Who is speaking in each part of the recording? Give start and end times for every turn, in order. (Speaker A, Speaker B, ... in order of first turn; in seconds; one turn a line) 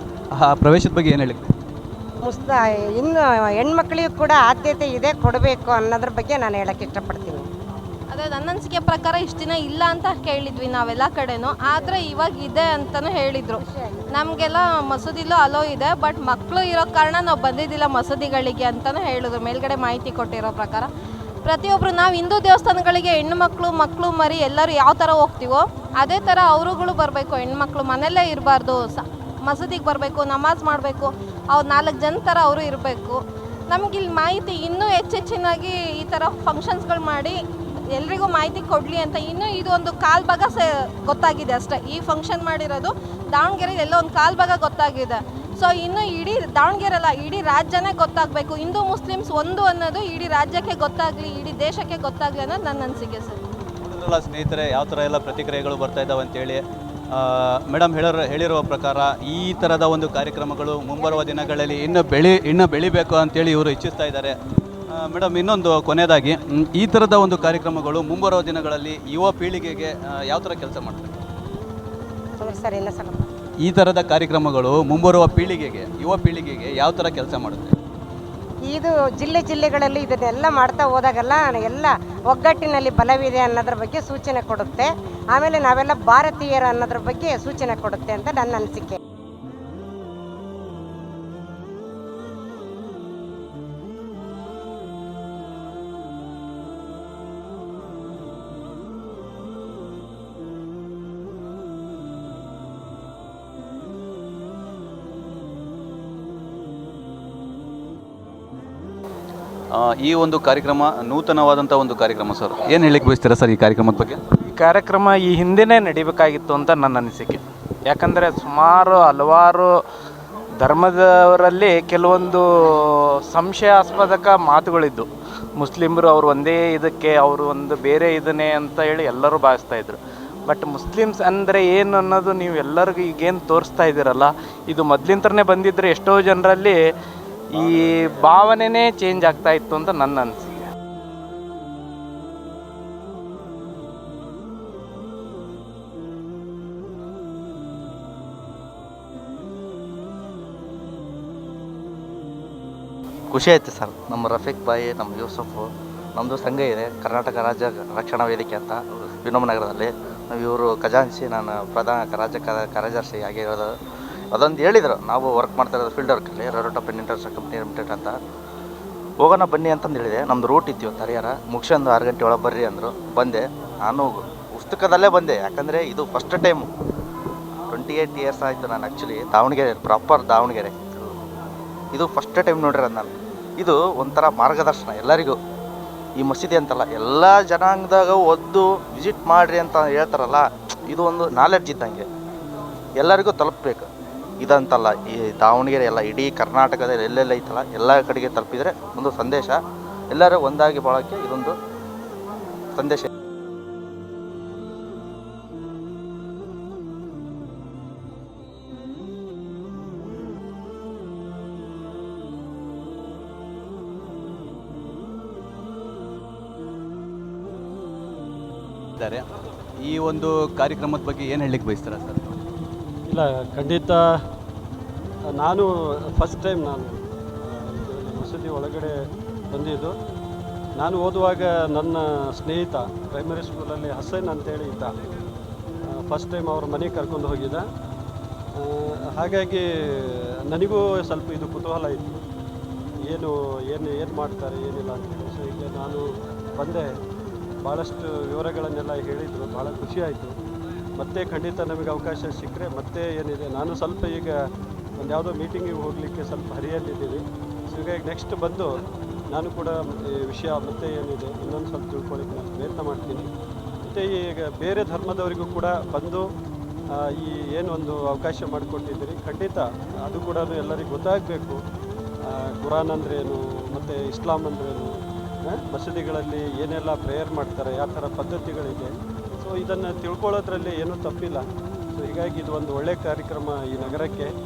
Speaker A: 0.3-1.5
Speaker B: 2.2-7.5
Speaker C: 8.1-20.9
Speaker B: 13.6-14.0
Speaker C: 21.4-33.2
Speaker C: 33.7-37.4
Speaker C: 37.9-53.4
Speaker A: 53.8-64.3
Speaker B: 61.0-62.1
Speaker A: 64.9-71.2
Speaker B: 72.4-73.3
Speaker A: 73.6-77.8
Speaker B: 78.7-89.0
Speaker A: 109.7-114.2
Speaker D: 114.5-119.7
Speaker D: 120.6-136.8
Speaker D: 137.5-140.6
Speaker E: 153.3-163.7
Speaker E: 164.3-168.2
Speaker E: 169.2-176.7
Speaker E: 177.7-181.1
Speaker E: 181.9-185.4
Speaker E: 186.2-192.0
Speaker E: 193.0-193.9
Speaker E: 194.4-199.6
Speaker E: 200.1-201.6
Speaker E: 202.8-203.1
Speaker A: 219.0-219.2
Speaker A: 219.8-222.4
Speaker F: 223.1-224.0
Speaker F: 225.4-228.9
Speaker F: 229.5-229.9
Speaker F: 230.8-234.9
Speaker F: 236.0-237.6
Speaker F: 238.6-242.2
Speaker F: 243.1-246.9
Speaker F: 247.6-250.3
Speaker F: 251.0-254.4
Speaker F: 255.0-258.8
Speaker F: 259.3-263.3
Speaker F: 263.9-266.2
Speaker F: 267.0-271.6
Speaker F: 272.3-274.9
Speaker F: 275.5-284.3